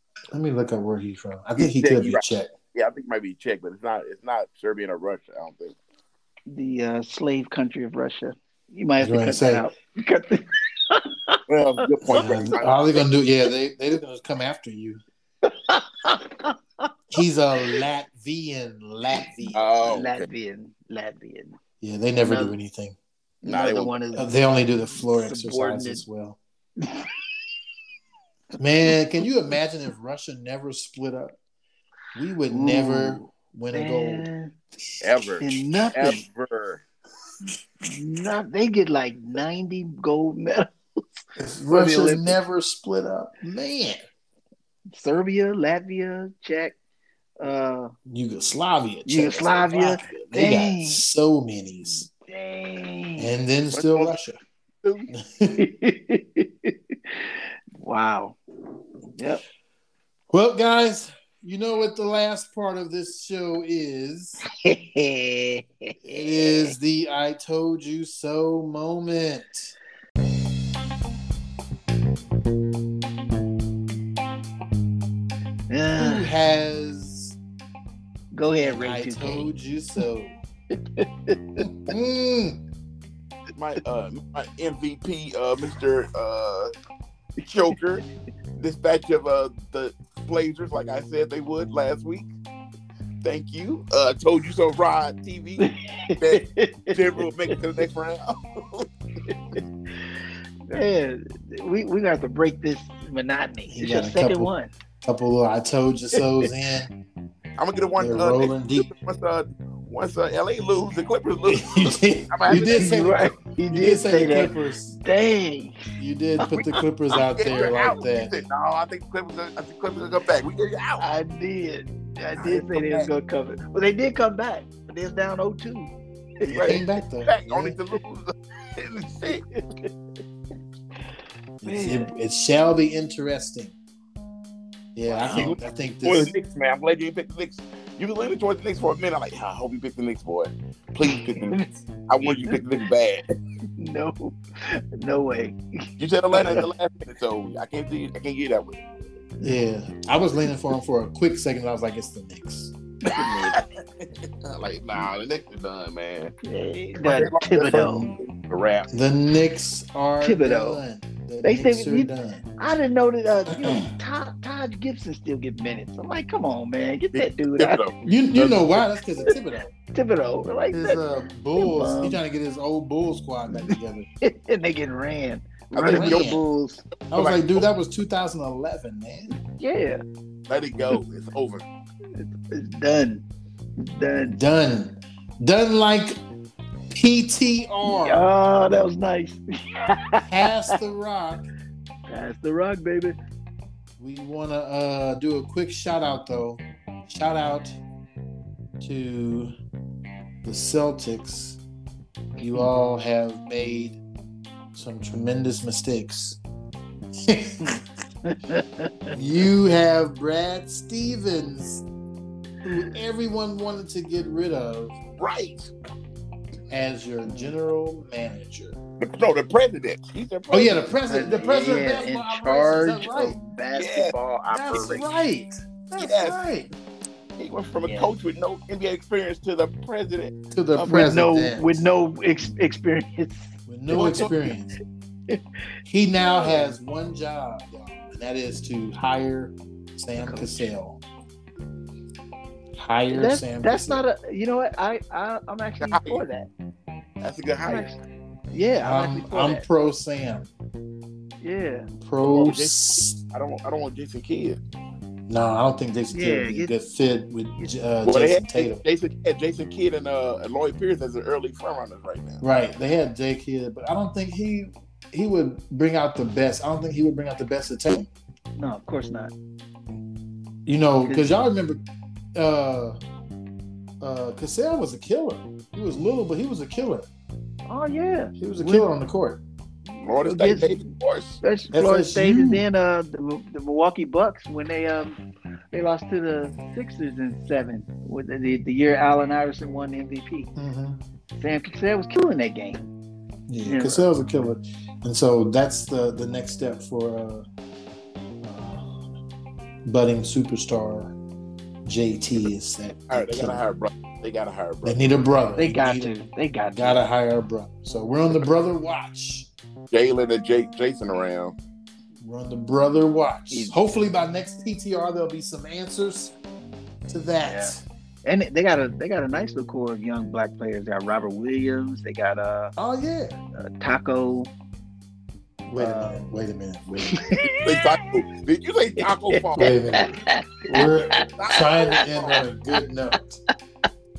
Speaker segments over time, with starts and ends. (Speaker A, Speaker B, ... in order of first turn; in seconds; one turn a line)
Speaker A: 0.3-2.5
Speaker B: 1.6-2.2
Speaker B: 2.7-5.8
Speaker C: 6.5-12.6
Speaker A: 9.0-9.7
Speaker B: 11.5-13.0
Speaker A: 12.1-15.0
Speaker C: 15.4-16.9
Speaker A: 17.1-19.6
Speaker C: 19.4-21.6
Speaker B: 19.6-20.3
Speaker A: 21.8-23.0
Speaker C: 22.2-22.6
Speaker C: 23.4-24.4
Speaker B: 23.5-23.9
Speaker A: 24.1-26.4
Speaker C: 25.1-26.0
Speaker C: 26.8-27.2
Speaker A: 28.6-31.4
Speaker A: 32.1-34.3
Speaker C: 32.5-34.5
Speaker B: 35.0-36.8
Speaker C: 35.4-36.2
Speaker C: 37.8-40.7
Speaker A: 41.4-44.0
Speaker C: 41.7-42.4
Speaker C: 44.9-46.8
Speaker C: 47.4-47.9
Speaker A: 48.1-49.8
Speaker C: 49.1-51.0
Speaker B: 49.3-50.3
Speaker A: 50.3-52.1
Speaker C: 52.2-53.3
Speaker A: 53.2-54.4
Speaker B: 53.7-54.2
Speaker B: 54.8-55.1
Speaker A: 55.1-55.6
Speaker C: 55.6-58.4
Speaker C: 59.2-59.4
Speaker A: 60.3-64.4
Speaker C: 64.5-66.8
Speaker A: 66.1-69.7
Speaker C: 75.7-76.3
Speaker A: 76.0-77.4
Speaker C: 78.3-79.5
Speaker A: 78.6-80.4
Speaker C: 80.7-81.7
Speaker A: 81.6-82.6
Speaker B: 83.6-86.7
Speaker B: 87.4-88.0
Speaker B: 88.6-92.3
Speaker B: 93.2-98.9
Speaker C: 95.6-97.6
Speaker C: 99.3-104.7
Speaker A: 103.7-104.5
Speaker A: 105.0-106.9
Speaker C: 106.2-106.4
Speaker B: 107.6-113.0
Speaker A: 108.0-108.9
Speaker A: 111.5-115.0
Speaker C: 112.5-115.8
Speaker A: 116.0-118.3
Speaker C: 116.4-116.8
Speaker B: 117.3-121.1
Speaker C: 121.0-126.8
Speaker B: 122.4-123.1
Speaker B: 126.5-129.5
Speaker A: 126.5-127.8
Speaker C: 129.3-129.9
Speaker A: 131.6-133.8
Speaker C: 131.7-132.1
Speaker A: 134.9-136.3
Speaker C: 135.1-135.6
Speaker B: 135.3-143.2
Speaker C: 141.1-141.7
Speaker C: 142.5-142.8
Speaker C: 143.8-146.7
Speaker B: 146.0-148.8
Speaker A: 149.4-152.7
Speaker C: 153.1-153.6
Speaker B: 153.1-153.6
Speaker B: 154.4-156.3
Speaker C: 156.4-158.1
Speaker B: 157.0-158.9
Speaker A: 157.7-158.1
Speaker A: 158.9-162.4
Speaker C: 160.2-160.8
Speaker C: 161.4-167.8
Speaker A: 163.5-163.9
Speaker B: 167.1-168.8
Speaker A: 168.0-169.7
Speaker C: 169.9-171.0
Speaker A: 170.7-174.1
Speaker C: 171.6-172.2
Speaker C: 173.5-176.8
Speaker B: 175.7-176.3
Speaker A: 175.9-176.4
Speaker B: 177.0-177.6
Speaker A: 177.1-179.4
Speaker C: 179.3-180.0
Speaker B: 180.5-181.7
Speaker C: 182.1-183.2
Speaker C: 183.8-184.4
Speaker A: 184.2-186.2
Speaker A: 186.9-188.3
Speaker C: 187.8-190.8
Speaker A: 190.2-191.5
Speaker C: 192.1-193.2
Speaker A: 194.0-197.8
Speaker A: 198.8-199.5
Speaker A: 200.4-201.6
Speaker A: 202.4-204.0
Speaker A: 204.7-206.4
Speaker A: 207.2-207.8
Speaker C: 207.6-209.2
Speaker A: 209.1-211.8
Speaker A: 212.6-215.0
Speaker B: 215.2-215.7
Speaker A: 216.7-218.8
Speaker C: 217.3-217.5
Speaker B: 219.0-221.0
Speaker A: 220.5-223.4
Speaker C: 221.1-225.0
Speaker B: 223.8-225.0
Speaker A: 224.5-226.7
Speaker B: 226.0-226.4
Speaker B: 227.4-231.1
Speaker C: 227.8-228.1
Speaker A: 230.5-231.8
Speaker C: 230.9-234.2
Speaker A: 233.7-234.8
Speaker B: 233.9-234.3
Speaker A: 235.9-241.0
Speaker C: 240.2-240.7
Speaker A: 242.8-244.0
Speaker C: 243.1-246.5
Speaker B: 245.8-246.2
Speaker B: 247.2-248.0
Speaker C: 247.6-248.0
Speaker C: 248.5-249.7
Speaker A: 248.8-250.5
Speaker C: 251.4-251.9
Speaker A: 252.0-253.2
Speaker B: 252.2-254.6
Speaker A: 255.3-258.8
Speaker C: 256.1-256.7
Speaker B: 258.0-262.4
Speaker A: 262.4-268.1
Speaker C: 268.6-269.3
Speaker A: 270.7-271.8
Speaker C: 271.0-271.3
Speaker A: 272.4-273.0
Speaker A: 274.0-277.1
Speaker C: 277.7-278.9
Speaker A: 278.4-279.4
Speaker C: 279.9-280.7
Speaker B: 280.0-281.4
Speaker C: 281.4-285.2
Speaker A: 281.7-282.6
Speaker C: 285.7-290.5
Speaker A: 290.6-291.0
Speaker C: 291.4-292.9
Speaker A: 293.5-297.4
Speaker C: 293.6-294.1
Speaker A: 298.4-299.2
Speaker A: 299.9-301.2
Speaker A: 301.9-303.6
Speaker B: 303.1-305.3
Speaker A: 304.8-306.1
Speaker C: 305.6-307.1
Speaker A: 306.7-309.5
Speaker B: 309.9-311.6
Speaker A: 312.2-316.4
Speaker A: 317.1-317.8
Speaker C: 317.4-317.7
Speaker C: 318.2-322.7
Speaker A: 322.8-323.4
Speaker C: 323.6-324.5
Speaker C: 325.7-326.2
Speaker A: 325.7-327.2
Speaker C: 327.1-328.1
Speaker B: 327.4-330.2
Speaker C: 329.0-331.3
Speaker A: 329.6-330.1
Speaker A: 330.6-333.4
Speaker B: 331.3-332.4